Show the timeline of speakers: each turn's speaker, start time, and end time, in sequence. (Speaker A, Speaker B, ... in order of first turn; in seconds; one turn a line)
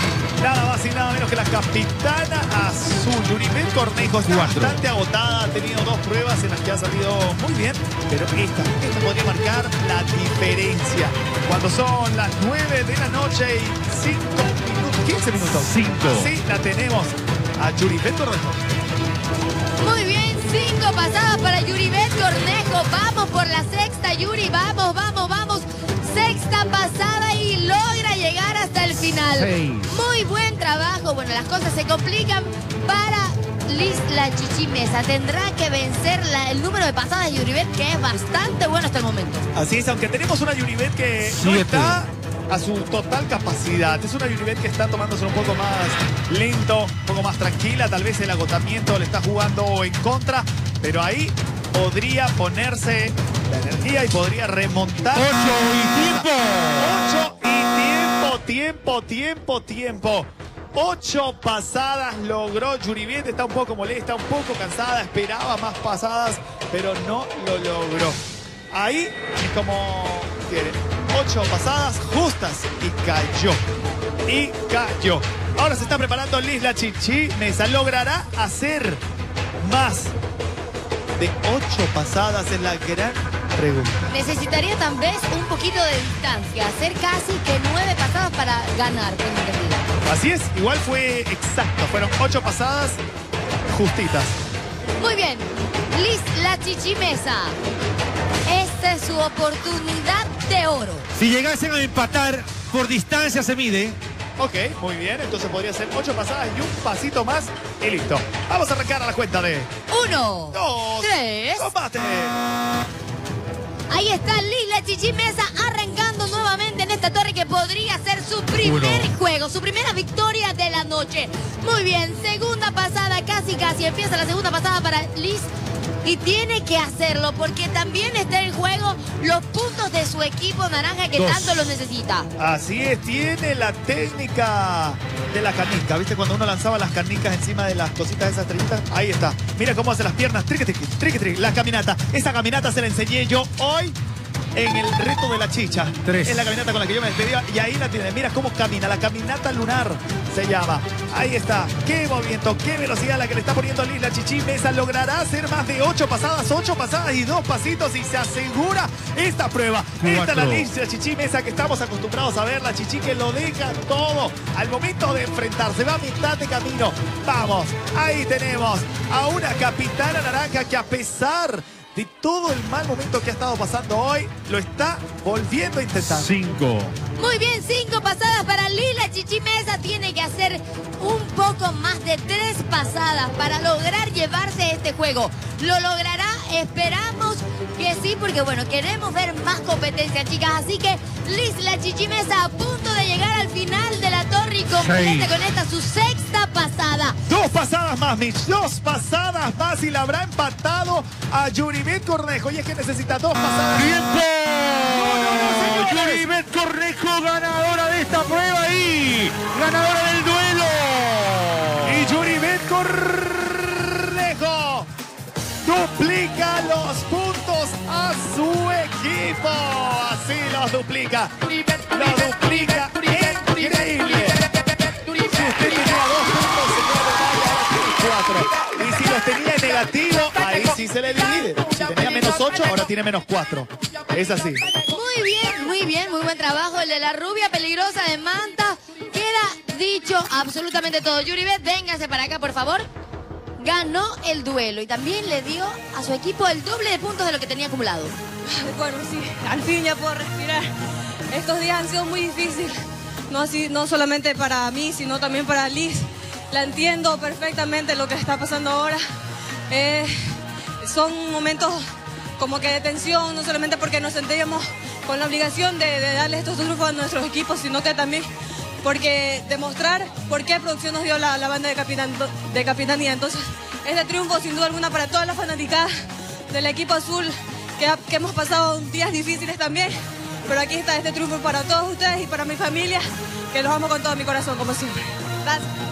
Speaker A: 0.4-18.8
Speaker B: 4.2-4.8
Speaker B: 15.4-16.3
Speaker C: 19.8-39.5
Speaker B: 29.3-29.9
Speaker A: 39.5-68.2
Speaker B: 41.2-42.0
Speaker B: 55.1-57.0
Speaker A: 68.7-73.6
Speaker A: 74.3-79.0
Speaker A: 79.6-80.1
Speaker A: 81.2-84.1
Speaker C: 84.1-89.9
Speaker A: 90.0-93.0
Speaker A: 93.7-94.4
Speaker C: 95.0-97.6
Speaker C: 98.5-101.1
Speaker B: 101.1-104.0
Speaker A: 104.4-109.7
Speaker C: 109.9-111.7
Speaker A: 110.5-112.4
Speaker C: 113.9-125.5
Speaker B: 118.6-119.1
Speaker C: 126.0-132.3
Speaker B: 131.1-131.6
Speaker A: 132.4-144.0
Speaker A: 144.5-176.3
Speaker B: 146.0-146.5
Speaker B: 160.0-160.7
Speaker B: 176.0-176.9
Speaker C: 177.2-197.2
Speaker B: 194.7-195.3
Speaker A: 197.3-203.9
Speaker B: 203.7-212.2
Speaker A: 204.8-206.3
Speaker A: 211.8-214.9
Speaker A: 215.6-221.3
Speaker A: 221.9-224.4
Speaker A: 225.2-234.7
Speaker C: 234.8-242.9
Speaker C: 243.6-248.2
Speaker D: 248.5-250.7
Speaker D: 251.3-259.0
Speaker D: 259.7-261.8
Speaker D: 262.4-268.3
Speaker D: 268.8-275.9
Speaker D: 276.5-285.7